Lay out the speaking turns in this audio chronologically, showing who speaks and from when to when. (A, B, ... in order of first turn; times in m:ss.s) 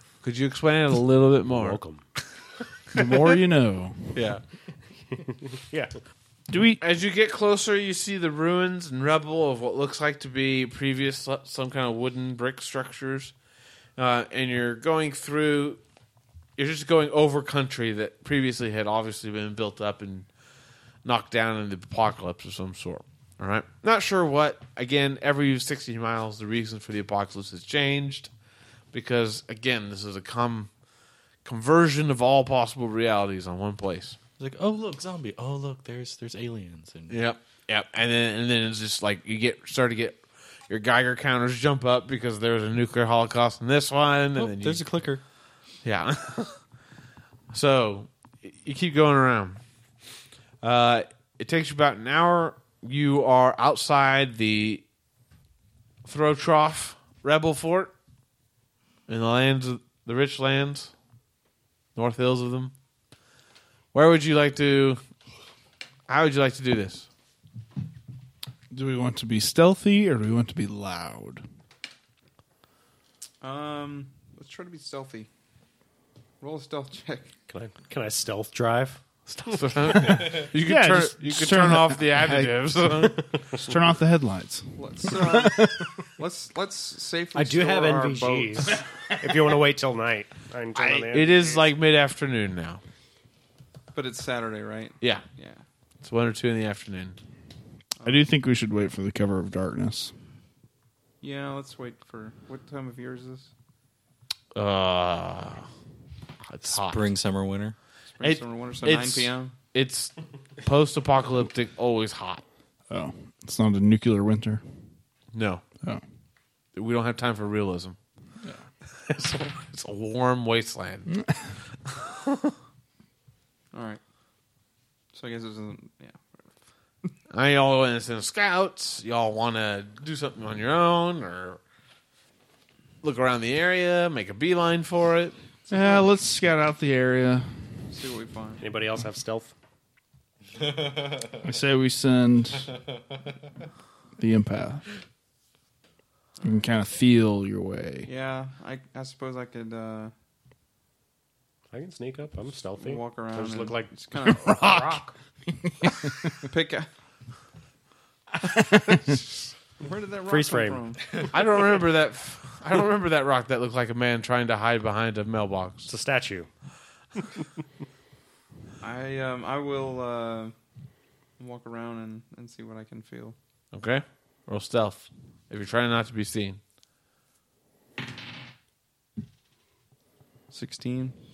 0:00.2-0:01.8 A
0:01.5-0:02.0 B
0:02.9-0:04.2 C
0:02.9-0:03.3 A
0:04.1-0:04.4 A
0:05.1-0:06.0 B
0:06.5-0:06.8 C
0:06.8-0:13.3 A
0:14.0-0:15.8 A
0:16.6-0:20.3 A
0:21.0-0:28.3 A
0:28.9-0:30.7 A
0:31.4-0:34.2 A
0:34.4-0:37.2 D
0:37.1-0:44.9 A
0:44.4-0:45.2 D
0:45.8-0:46.6 A
0:47.5-0:49.6 A
0:50.6-0:54.8 A
0:56.0-0:57.9 A
0:59.1-1:00.9 A
1:02.0-1:02.7 A
1:03.9-1:05.0 A
1:06.1-1:07.1 A
1:08.7-1:11.4 C
1:13.4-1:15.3 E
1:16.4-1:17.3 E
1:17.5-1:20.4 B
1:19.3-1:23.3 A
1:20.4-1:22.6 C
1:23.3-1:23.6 B
1:23.6-1:25.9 C
1:24.8-1:28.8 E
1:27.3-1:31.7 B
1:31.1-1:32.8 A
1:33.9-1:35.6 E
1:36.0-1:37.2 A
1:38.0-1:38.3 E
1:38.0-1:40.1 C
1:41.2-1:43.5 E
1:44.5-1:45.7 A
1:46.5-1:47.1 A
1:46.7-1:47.8 D
1:48.1-1:49.5 E
1:48.2-1:52.4 A
1:52.9-1:54.6 C
1:55.3-1:55.6 A
1:56.8-1:58.0 A
1:59.0-2:01.2 A
2:01.8-2:02.5 A
2:03.7-2:04.0 E
2:05.1-2:06.5 E
2:07.3-2:11.6 A
2:13.0-2:15.4 A
2:15.7-2:17.5 C
2:15.7-2:16.0 E
2:17.9-2:18.6 E
2:18.6-2:19.5 B
2:20.6-2:21.3 D
2:21.4-2:22.7 C
2:24.2-2:24.9 C
2:26.4-2:28.1 C
2:28.0-2:30.1 E
2:31.7-2:35.1 B
2:32.8-2:34.6 E
2:36.4-2:36.9 E
2:38.5-2:39.2 C
2:39.8-2:41.1 E
2:40.3-2:40.8 B
2:41.3-2:45.9 A
2:45.9-2:46.5 B
2:48.8-2:50.5 E
2:51.4-2:53.4 E
2:53.7-2:56.6 A
3:00.5-3:01.2 E